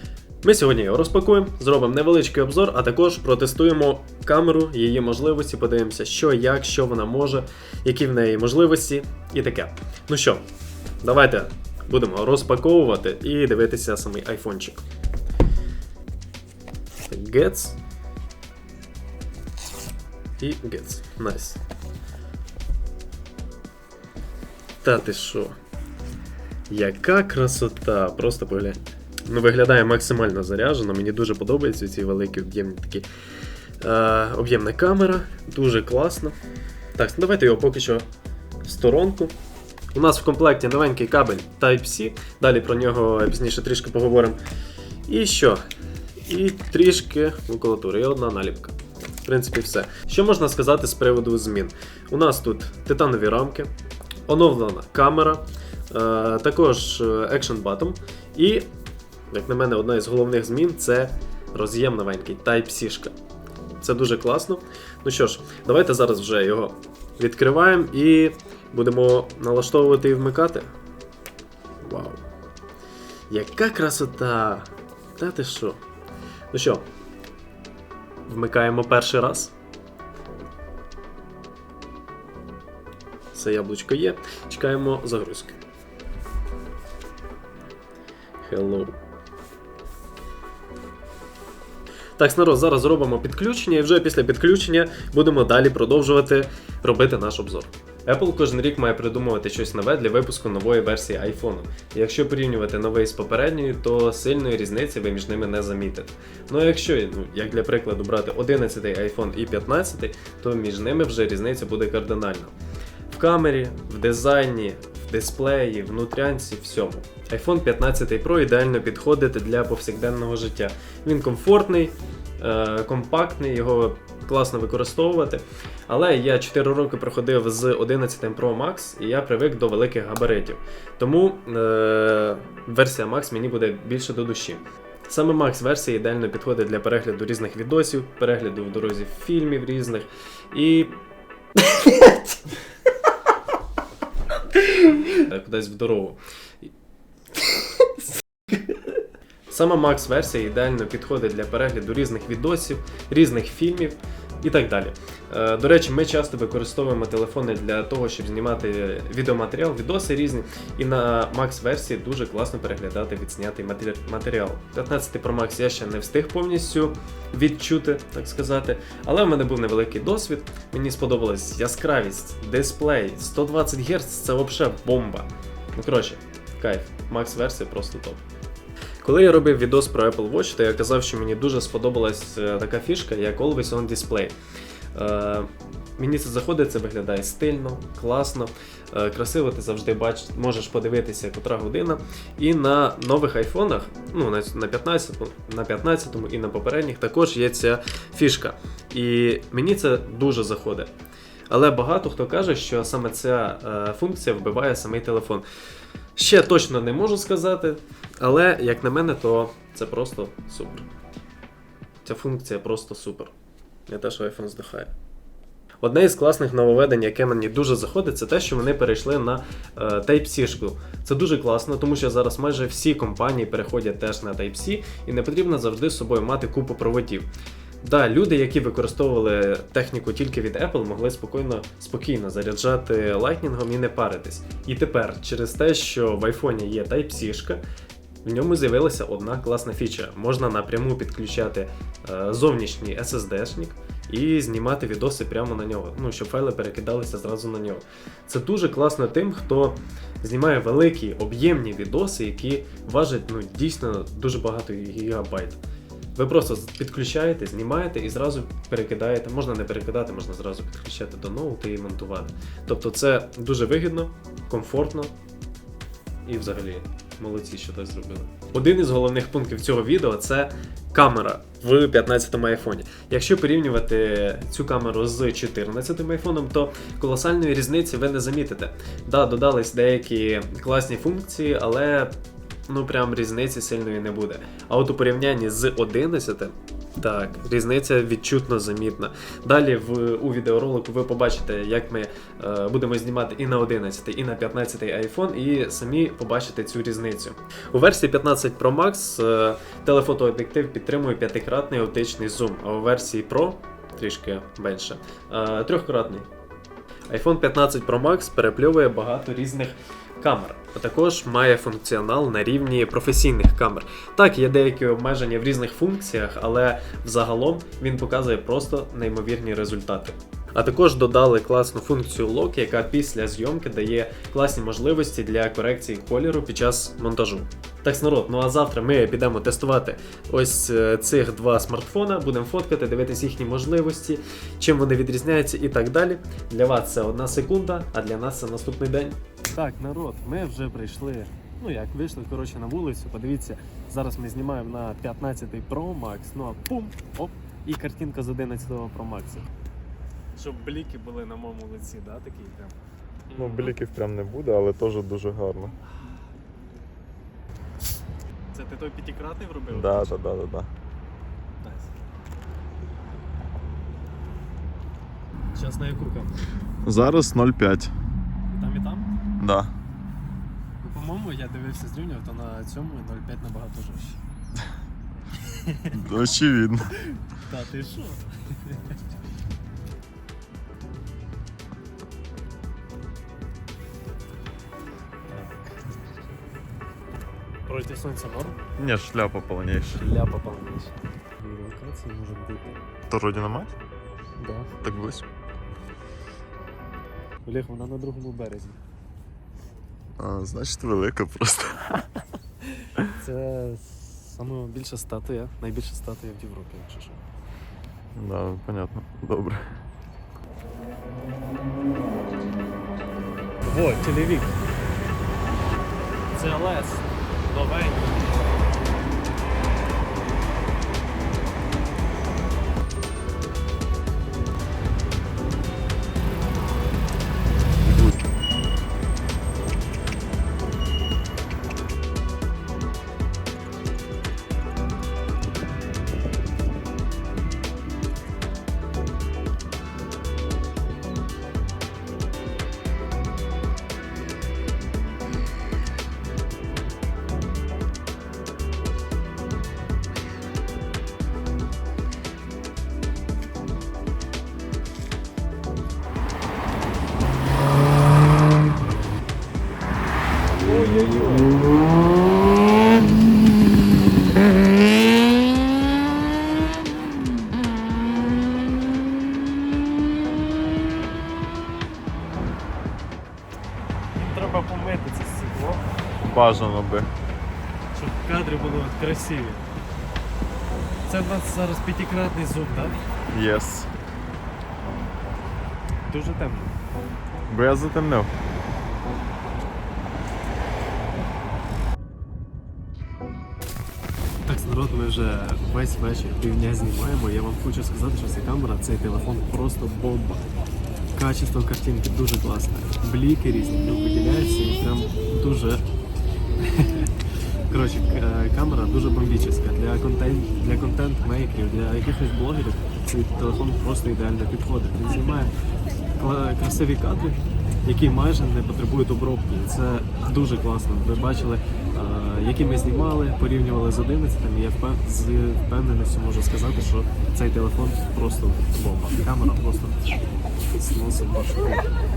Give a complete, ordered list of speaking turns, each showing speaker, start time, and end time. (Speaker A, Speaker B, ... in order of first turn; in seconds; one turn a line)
Speaker A: 0.4-10.4
Speaker A: 11.0-14.8
Speaker A: 17.1-17.8
Speaker A: 20.4-21.6
Speaker A: 24.8-25.6
Speaker A: 26.7-33.1
Speaker A: 33.8-36.3
Speaker A: 37.0-38.0
Speaker A: 38.6-39.3
Speaker A: 39.9-44.4
Speaker A: 45.0-45.6
Speaker A: 46.2-53.7
Speaker A: 54.3-58.7
Speaker A: 59.3-63.1
Speaker A: 63.8-70.7
Speaker A: 71.8-72.2
Speaker A: 73.3-75.8
Speaker A: 76.5-76.8
Speaker A: 78.3-79.5
Speaker A: 83.3-85.6
Speaker A: 88.4-89.0
Speaker A: 92.2-112.5
Speaker A: 113.1-140.9
Speaker A: 141.6-142.3
Speaker A: 144.7-146.7
Speaker A: 148.5-148.8
Speaker A: 149.5-178.2
Speaker A: 179.0-184.3
Speaker A: 184.9-200.9
Speaker A: 201.5-205.4
Speaker A: 206.2-210.8
Speaker A: 212.0-213.3
Speaker A: 213.9-214.9
Speaker A: 215.8-227.3
Speaker A: 227.8-237.6
Speaker A: 238.2-255.6
Speaker A: 256.1-265.1
Speaker A: 266.2-282.1
Speaker A: 282.7-306.3
Speaker A: 307.1-349.5
Speaker A: 350.4-352.8
Speaker A: 353.3-353.7
Speaker B: 353.4-355.8
Speaker A: 358.5-360.2
Speaker B: 359.7-360.7
Speaker A: 361.6-361.9
Speaker A: 365.5-366.3
Speaker B: 366.8-367.9
Speaker A: 368.5-369.1
Speaker B: 369.4-369.7
Speaker A: 370.8-374.2
Speaker A: 375.4-376.2
Speaker B: 375.9-376.9
Speaker A: 376.9-379.0
Speaker A: 385.3-385.6
Speaker A: 387.7-388.6
Speaker B: 388.8-390.0
Speaker A: 389.9-392.8
Speaker B: 393.1-393.7
Speaker A: 394.4-394.9
Speaker B: 394.8-395.2
Speaker A: 397.4-398.8
Speaker B: 400.2-402.0
Speaker A: 402.7-407.2
Speaker B: 408.1-409.8
Speaker A: 413.6-414.6
Speaker A: 416.3-418.3
Speaker A: 460.6-461.7
Speaker A: 474.1-475.9
Speaker B: 476.2-477.1
Speaker A: 477.9-479.6
Speaker A: 481.1-483.1
Speaker B: 483.3-483.9
Speaker A: 486.1-486.8
Speaker B: 487.5-488.3
Speaker A: 494.4-500.4
Speaker A: 501.1-505.8
Speaker A: 506.6-507.1
Speaker A: 507.7-515.5
Speaker A: 516.1-531.9